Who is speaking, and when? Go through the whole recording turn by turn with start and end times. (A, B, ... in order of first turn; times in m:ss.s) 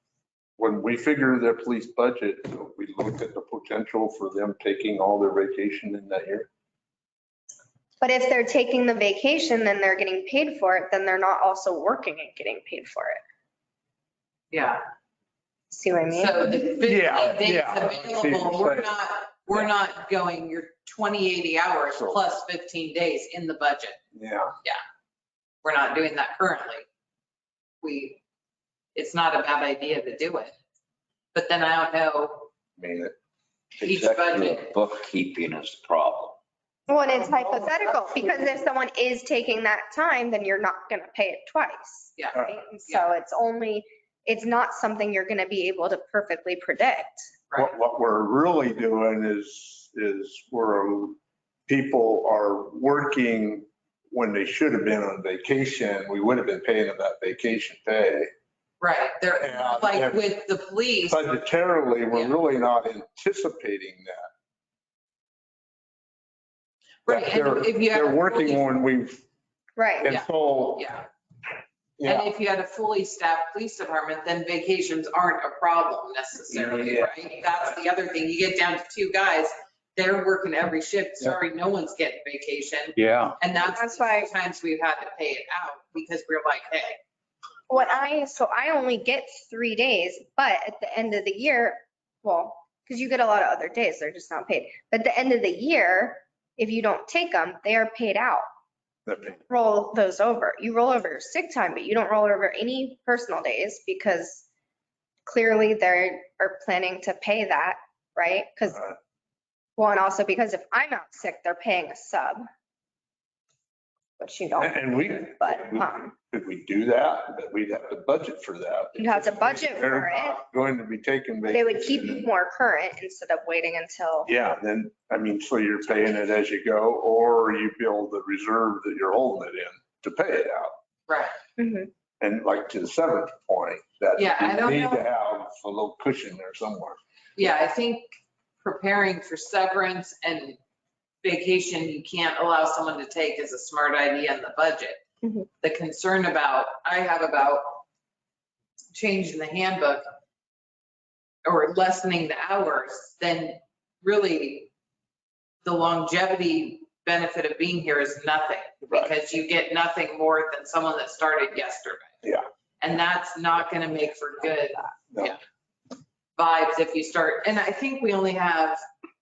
0:00.6-0:06.5 A
0:08.0-0:13.2 B
0:14.5-0:14.8 C
0:15.7-0:16.6 B
0:16.1-0:24.0 C
0:16.8-0:18.9 A
0:21.9-0:22.2 A
0:24.1-0:24.5 A
0:25.6-0:26.8 C
0:27.8-0:28.2 C
0:28.9-0:30.5 C
0:31.3-0:32.5 C
0:32.8-0:33.1 A
0:33.8-0:34.2 A
0:33.8-0:34.7 C
0:33.9-0:36.4 D
0:36.9-0:47.3 B
0:42.2-0:43.0 C
0:47.5-0:58.3 A
0:58.8-1:01.2 C
0:59.4-1:00.2 A
1:01.1-1:04.3 A
1:02.1-1:02.4 C
1:07.0-1:08.7 C
1:07.1-1:09.2 A
1:09.8-1:10.1 B
1:10.0-1:10.8 A
1:10.0-1:11.1 C
1:12.0-1:12.3 A
1:12.0-1:27.0 C
1:16.5-1:17.1 A
1:23.0-1:23.4 D
1:23.6-1:24.3 B
1:27.7-1:38.4 B
1:39.0-1:39.4 A
1:39.4-1:44.5 B
1:45.2-1:48.8 B
1:49.8-1:52.4 B
1:54.2-1:56.1 B
1:54.6-2:02.3 A
1:59.0-2:00.4 B
2:01.5-2:04.3 B
2:04.2-2:10.7 A
2:11.1-2:11.3 C
2:11.6-2:11.9 B
2:12.2-2:17.0 A
2:14.2-2:15.1 C
2:17.4-2:18.1 C
2:18.6-2:20.6 C
2:21.2-2:25.0 C
2:25.6-2:27.8 C
2:28.9-2:30.0 C
2:31.4-2:34.7 C
2:35.6-2:42.1 C
2:42.8-2:45.4 C
2:45.1-2:45.4 A
2:46.4-2:48.8 C